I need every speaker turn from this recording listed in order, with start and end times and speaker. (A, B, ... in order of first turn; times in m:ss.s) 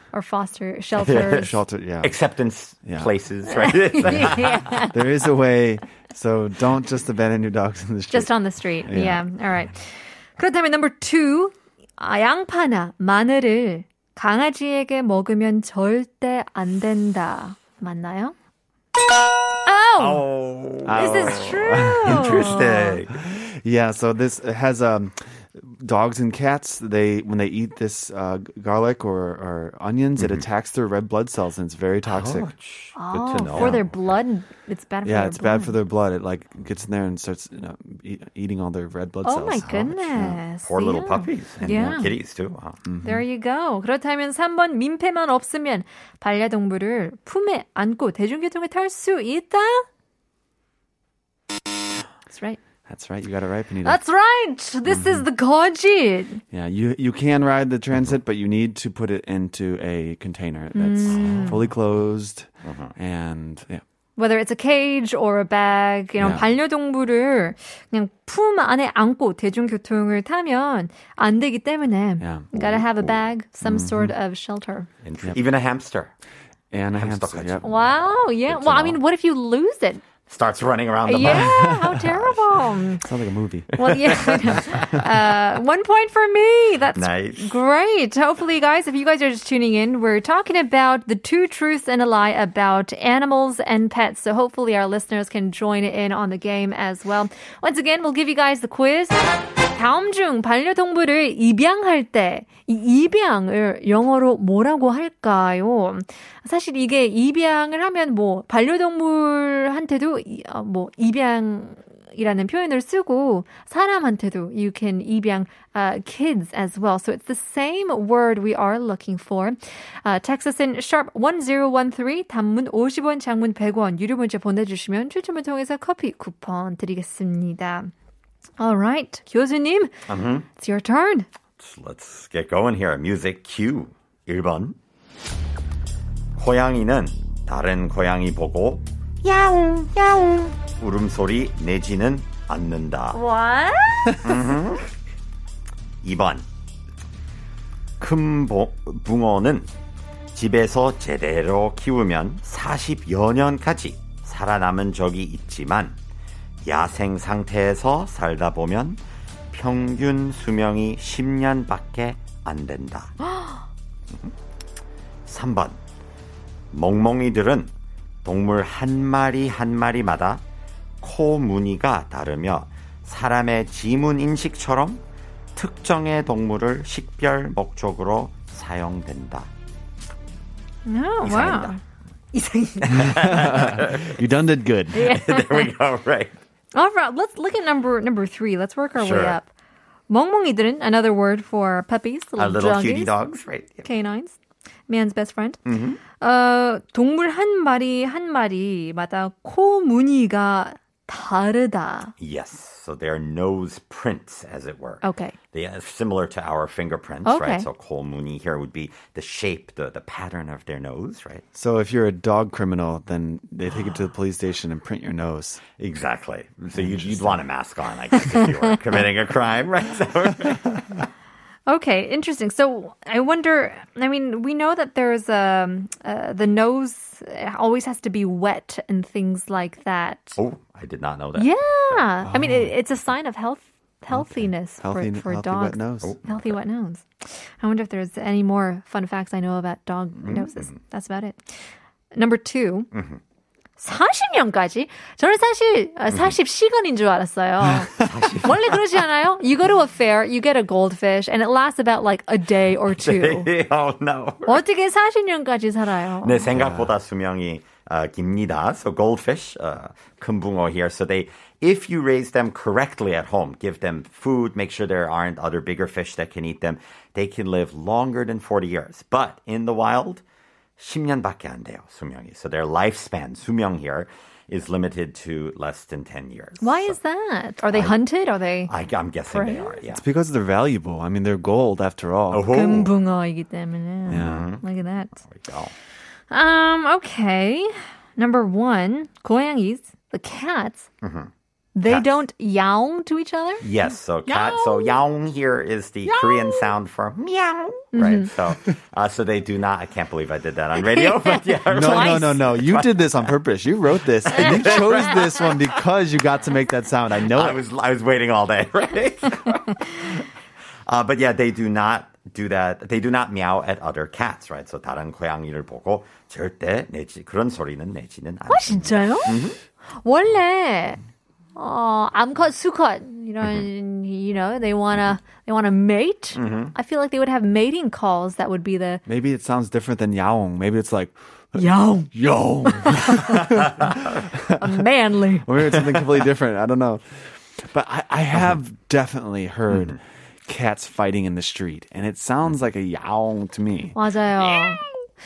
0:00.1-0:01.6 A
0:01.0-0:01.5 B
0:01.1-0:02.2 C
0:02.0-0:04.9 B
0:02.8-0:03.1 C
0:03.5-0:05.0 A
0:04.8-0:08.3 C
0:08.1-0:18.4 A
0:08.8-0:09.3 C
0:19.6-0:20.3 A
0:20.0-0:23.2 B
0:20.8-0:22.5 C
0:20.9-0:23.0 A
0:23.1-0:32.5 C
0:30.2-0:30.5 B
0:32.1-0:34.0 B
0:33.0-0:35.8 A
0:33.5-0:34.0 C
0:35.0-0:40.4 C
0:39.2-0:42.1 A
0:40.6-0:42.8 B
0:41.6-0:42.1 C
0:42.8-0:43.3 C
0:43.0-0:49.9 A
0:52.3-0:52.6 A
0:52.9-0:54.0 C
0:53.8-0:56.4 A
0:54.9-0:55.2 C
0:56.5-1:03.8 C
1:00.8-1:01.6 A
1:01.1-1:01.6 B
1:02.6-1:02.9 B
1:04.2-1:14.9 A
1:06.2-1:06.5 C
1:12.2-1:14.1 C
1:15.0-1:16.1 B
1:16.7-1:17.6 C
1:16.9-1:17.9 B
1:17.6-1:20.0 A
1:18.4-1:19.0 B
1:20.3-1:22.6 B
1:21.0-1:23.1 A
1:21.2-1:22.2 C
1:23.0-1:25.0 C
1:23.8-1:39.2 A
1:23.8-1:24.8 B
1:26.9-1:27.6 B
1:39.7-2:07.9 A
2:08.6-2:09.9 A
2:10.1-2:10.5 B
2:10.5-2:11.3 A
2:11.6-2:14.8 B
2:16.4-2:18.9 B
2:19.2-2:20.5 A
2:20.7-2:23.2 B
2:23.1-2:24.4 A
2:24.2-2:24.9 B
2:26.0-2:26.5 B
2:28.0-2:29.7 B
2:30.4-2:36.0 B
2:36.6-2:43.2 B
2:45.3-2:45.8 B
2:46.7-2:47.7 B
2:48.2-2:50.4 B
2:51.0-2:55.0 B
2:55.6-2:59.5 B
3:00.8-3:01.8 A
3:01.2-3:01.8 B
3:02.3-3:03.2 A
3:02.8-3:04.2 B
3:03.0-3:05.1 C
3:04.9-3:05.7 A
3:05.0-3:06.4 B
3:06.8-3:09.5 A
3:09.0-3:09.4 B
3:10.1-3:13.2 A
3:12.4-3:13.9 B
3:13.8-3:14.4 A
3:14.9-3:22.1 A
3:15.7-3:16.0 B
3:22.2-3:31.4 B
3:25.0-3:25.4 A
3:27.2-3:27.7 A
3:31.5-3:35.6 C
3:35.8-3:41.1 B
3:36.7-3:37.4 C
3:41.7-3:50.4 A
3:50.4-3:52.1 B
3:51.4-4:01.4 A
3:52.2-3:52.8 C
3:54.1-3:56.2 C
3:56.0-3:56.5 B
4:00.2-4:00.7 B
4:02.1-4:02.9 A
4:02.9-4:03.2 B
4:03.8-4:13.5 A
4:06.1-4:06.4 B
4:08.0-4:09.0 B
4:12.8-4:14.6 B
4:14.5-4:16.5 A
4:16.2-4:30.2 B
4:16.5-4:17.0 C
4:30.8-4:37.0 B
4:36.6-4:38.7 A
4:37.7-4:38.0 B
4:38.7-4:40.0 B
4:39.3-4:39.8 A
4:39.9-4:42.5 C
4:42.3-4:42.9 B
4:42.5-4:45.2 A
4:44.1-4:44.5 C
4:44.1-4:44.6 B
4:45.2-4:45.7 B
4:46.3-4:50.9 A
4:51.0-4:51.3 B
4:51.8-4:53.6 A
4:51.8-4:52.2 B
4:53.6-5:03.4 B
4:54.2-4:55.0 A
4:56.0-4:56.7 A
4:57.9-4:58.3 A
5:00.8-5:02.4 A
5:01.7-5:07.6 C
5:04.3-5:05.6 B
5:07.3-5:10.2 B
5:10.9-5:19.6 B
5:18.5-5:21.0 A
5:21.6-5:29.0 A
5:26.4-5:26.8 B
5:29.1-5:34.8 C
5:31.6-5:33.7 A
5:34.6-5:35.5 A
5:35.4-5:44.0 C
5:39.7-5:40.0 B
5:43.9-5:45.0 A
5:44.4-5:44.8 B